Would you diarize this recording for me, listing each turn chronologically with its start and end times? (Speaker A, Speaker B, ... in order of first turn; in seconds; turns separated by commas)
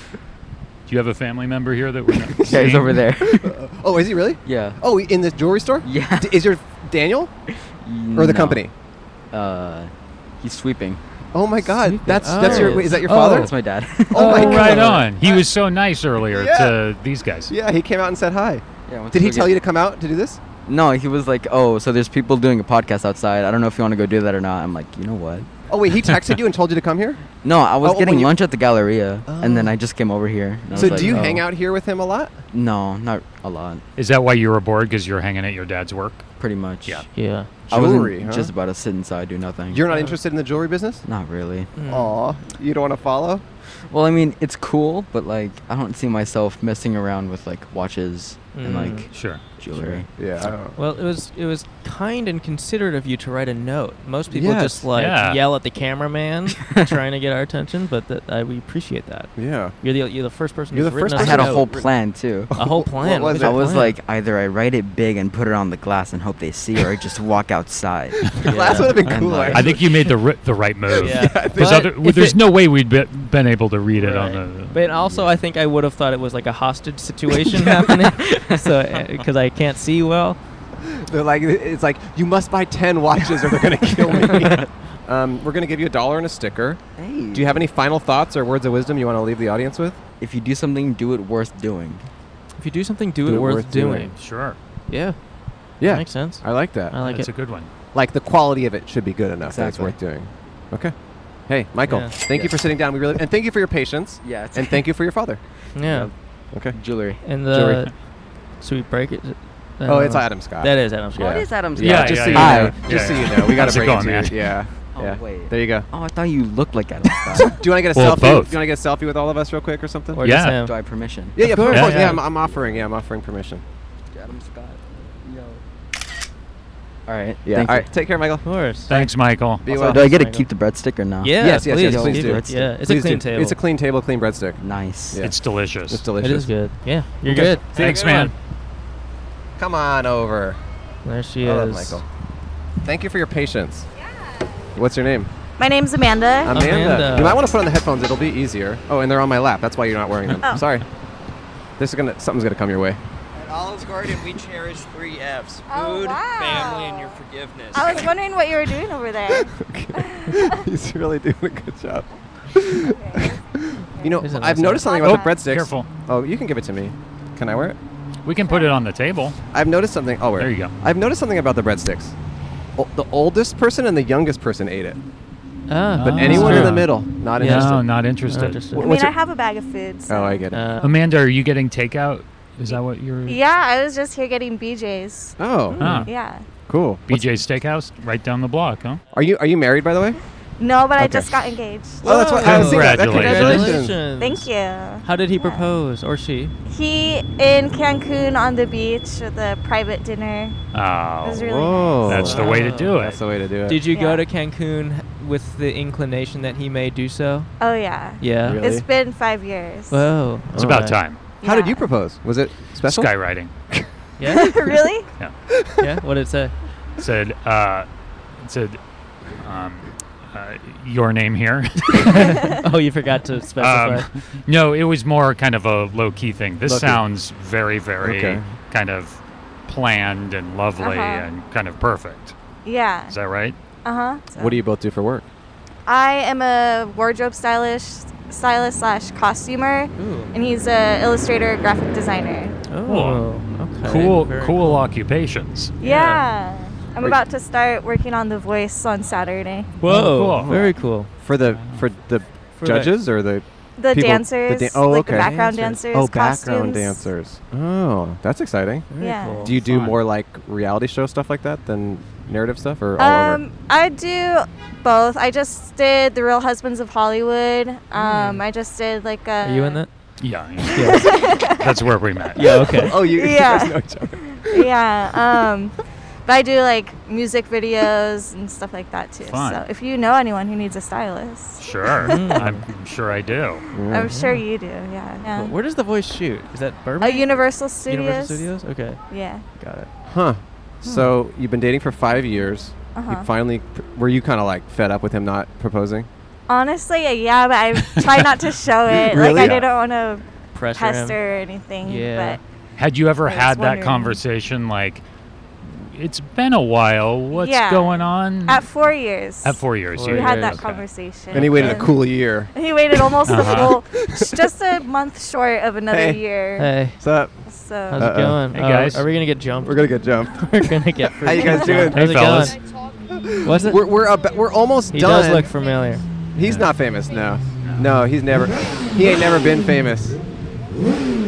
Speaker A: 0.9-3.0, Speaker B: 2.4-3.6, Speaker C: 2.5-7.3, Speaker B: 4.4-4.8, Speaker B: 5.8-6.4, Speaker B: 7.7-8.6, Speaker C: 8.2-8.7, Speaker B: 9.3-11.0, Speaker C: 11.3-13.5, Speaker D: 11.8-13.0, Speaker B: 12.3-15.1, Speaker A: 13.1-17.5, Speaker C: 14.1-15.5, Speaker C: 16.3-16.8, Speaker C: 17.5-20.4, Speaker B: 18.9-19.6, Speaker B: 20.7-25.5, Speaker C: 25.7-27.2, Speaker B: 27.4-31.4, Speaker C: 27.8-28.4, Speaker C: 29.3-29.8, Speaker C: 30.7-32.4, Speaker B: 32.5-33.8, Speaker A: 34.0-36.3, Speaker B: 36.4-37.0, Speaker A: 36.9-37.1, Speaker D: 37.1-37.5, Speaker C: 37.7-38.5, Speaker B: 37.7-39.9, Speaker C: 39.7-41.0, Speaker B: 41.0-41.7, Speaker D: 41.8-42.2, Speaker C: 41.9-43.4, Speaker B: 43.9-50.5, Speaker D: 48.5-49.1, Speaker A: 49.1-49.4, Speaker C: 49.7-50.8, Speaker D: 50.8-61.7, Speaker C: 54.3-54.9, Speaker A: 55.0-55.4, Speaker B: 56.6-56.9, Speaker C: 59.4-59.8, Speaker C: 60.7-63.7, Speaker B: 61.1-62.5, Speaker D: 62.5-64.0, Speaker B: 63.3-69.8, Speaker D: 68.5-69.2, Speaker C: 68.5-70.0, Speaker A: 69.5-74.8, Speaker C: 71.0-72.3, Speaker D: 71.0-71.8, Speaker D: 74.0-80.4, Speaker B: 75.0-75.3, Speaker C: 80.8-86.8, Speaker B: 87.0-87.6, Speaker C: 87.3-90.0, Speaker B: 90.2-92.0, Speaker D: 92.6-94.1, Speaker C: 93.2-94.1, Speaker A: 94.2-94.6, Speaker D: 94.9-95.2, Speaker C: 95.8-97.0, Speaker D: 95.8-97.3, Speaker A: 97.0-97.7, Speaker C: 97.9-100.9, Speaker B: 99.5-100.0, Speaker C: 101.5-105.4, Speaker D: 101.9-102.1, Speaker B: 102.3-102.6, Speaker B: 104.2-104.8, Speaker D: 105.8-106.1, Speaker B: 105.8-106.1, Speaker C: 106.5-106.8, Speaker B: 106.7-107.3, Speaker D: 107.2-107.9, Speaker C: 107.5-107.9, Speaker D: 108.6-111.5, Speaker C: 109.8-115.9, Speaker B: 111.2-114.0, Speaker A: 111.8-114.4, Speaker B: 114.9-117.6, Speaker C: 117.3-120.3, Speaker A: 117.9-118.5, Speaker D: 120.1-120.8, Speaker A: 120.2-120.7, Speaker B: 120.6-121.5, Speaker C: 121.4-123.6, Speaker D: 121.4-122.2, Speaker A: 121.7-122.2, Speaker B: 124.1-125.6, Speaker B: 127.1-127.9, Speaker C: 127.5-129.1, Speaker D: 128.4-128.9, Speaker A: 128.9-129.7, Speaker C: 129.6-130.2, Speaker B: 129.7-132.8, Speaker D: 129.9-130.5, Speaker D: 131.2-133.6, Speaker C: 131.4-135.3, Speaker B: 134.6-135.2, Speaker A: 135.2-136.0, Speaker C: 135.9-136.6, Speaker D: 136.2-137.9, Speaker C: 137.2-138.3, Speaker A: 137.8-138.3, Speaker C: 139.6-140.6, Speaker D: 141.1-142.0, Speaker C: 141.4-142.0, Speaker C: 142.8-143.9, Speaker E: 144.0-144.5, Speaker C: 144.8-145.3, Speaker E: 145.6-146.6, Speaker C: 146.5-150.8, Speaker D: 146.5-147.4, Speaker C: 151.8-153.0, Speaker F: 153.3-158.1, Speaker E: 155.7-157.2, Speaker E: 157.7-160.7, Speaker C: 159.4-167.8, Speaker E: 162.7-163.4, Speaker D: 164.2-165.0, Speaker E: 164.7-165.5, Speaker A: 165.0-165.9, Speaker A: 168.2-169.4, Speaker E: 168.4-168.7, Speaker C: 169.5-172.2, Speaker A: 170.4-170.7, Speaker C: 172.8-175.0, Speaker D: 175.7-178.9, Speaker A: 175.9-178.6, Speaker C: 176.2-177.9, Speaker E: 178.7-180.5, Speaker C: 178.8-179.2, Speaker C: 180.1-180.7, Speaker D: 180.5-180.9, Speaker A: 180.8-183.4, Speaker E: 182.7-185.4, Speaker C: 185.4-186.0, Speaker D: 185.7-186.1, Speaker A: 185.8-186.1, Speaker E: 186.0-186.4, Speaker C: 186.7-187.3, Speaker A: 187.1-189.0, Speaker C: 189.1-190.2, Speaker E: 190.6-192.2, Speaker C: 191.0-191.3, Speaker D: 192.0-194.5, Speaker C: 192.0-194.1, Speaker A: 192.3-193.8, Speaker E: 194.1-195.7, Speaker D: 195.0-196.6, Speaker E: 196.7-200.6, Speaker A: 200.7-203.2, Speaker E: 201.2-202.2, Speaker C: 201.4-203.9, Speaker D: 202.1-203.0, Speaker D: 203.7-207.5, Speaker E: 203.9-204.2, Speaker E: 207.6-210.1, Speaker D: 208.2-208.6, Speaker C: 208.4-208.8, Speaker D: 209.9-211.0, Speaker C: 210.5-213.2, Speaker A: 210.6-211.2, Speaker E: 211.4-211.8, Speaker A: 212.8-213.5, Speaker D: 214.2-214.6, Speaker E: 214.2-215.1, Speaker C: 215.5-215.9, Speaker D: 215.8-216.5, Speaker A: 217.0-218.8, Speaker A: 219.4-222.4, Speaker D: 222.0-224.1, Speaker A: 223.6-232.4, Speaker C: 226.7-227.0, Speaker C: 228.0-228.4, Speaker E: 230.8-231.3, Speaker E: 232.7-233.2, Speaker A: 233.1-233.6, Speaker E: 233.8-234.5, Speaker C: 234.3-235.3, Speaker E: 235.9-242.6, Speaker D: 240.0-240.3, Speaker D: 242.7-244.8, Speaker A: 242.8-245.8, Speaker E: 245.8-249.7, Speaker D: 245.8-246.2, Speaker D: 249.8-251.1, Speaker A: 249.8-250.6, Speaker C: 250.4-263.4, Speaker A: 251.5-251.8, Speaker D: 252.6-252.9, Speaker E: 253.8-257.1, Speaker D: 255.2-255.8, Speaker D: 258.9-259.5, Speaker E: 259.0-259.5, Speaker A: 259.5-260.0, Speaker E: 263.0-269.8, Speaker D: 267.9-268.4, Speaker D: 269.4-269.9, Speaker A: 270.2-272.8, Speaker D: 270.7-271.1, Speaker E: 270.8-271.7, Speaker D: 272.4-273.0, Speaker C: 272.7-274.6, Speaker E: 273.0-275.7, Speaker E: 276.3-282.4, Speaker A: 279.3-279.6, Speaker A: 281.6-283.6, Speaker D: 282.1-282.6, Speaker C: 283.7-284.2, Speaker E: 283.8-285.5, Speaker D: 284.0-284.4, Speaker D: 285.3-287.3, Speaker E: 287.0-288.5, Speaker D: 287.9-289.0, Speaker E: 289.1-289.4, Speaker D: 289.6-289.9, Speaker C: 290.1-296.1, Speaker D: 290.9-291.1, Speaker E: 292.9-293.3, Speaker E: 296.5-300.2, Speaker A: 298.0-298.3, Speaker C: 298.9-299.6, Speaker A: 299.4-299.6, Speaker D: 300.5-301.2, Speaker E: 300.8-302.4, Speaker D: 301.8-302.4, Speaker A: 302.8-305.0, Speaker E: 303.3-304.2, Speaker A: 305.6-308.7, Speaker E: 307.3-312.0, Speaker A: 309.4-311.9, Speaker D: 309.9-310.6, Speaker C: 311.3-312.5, Speaker E: 312.5-316.8, Speaker A: 313.3-313.8, Speaker C: 314.1-314.4, Speaker C: 315.9-316.2, Speaker D: 316.6-317.0, Speaker C: 317.0-317.3, Speaker E: 317.5-318.1, Speaker D: 317.9-322.6, Speaker C: 317.9-318.5, Speaker A: 318.5-319.1, Speaker C: 319.6-322.2, Speaker A: 321.9-322.6, Speaker G: 322.3-326.1, Speaker C: 323.2-325.5, Speaker D: 323.4-323.9, Speaker D: 324.9-326.0, Speaker C: 326.4-330.2, Speaker G: 326.6-327.5, Speaker A: 327.6-328.0, Speaker G: 328.5-329.4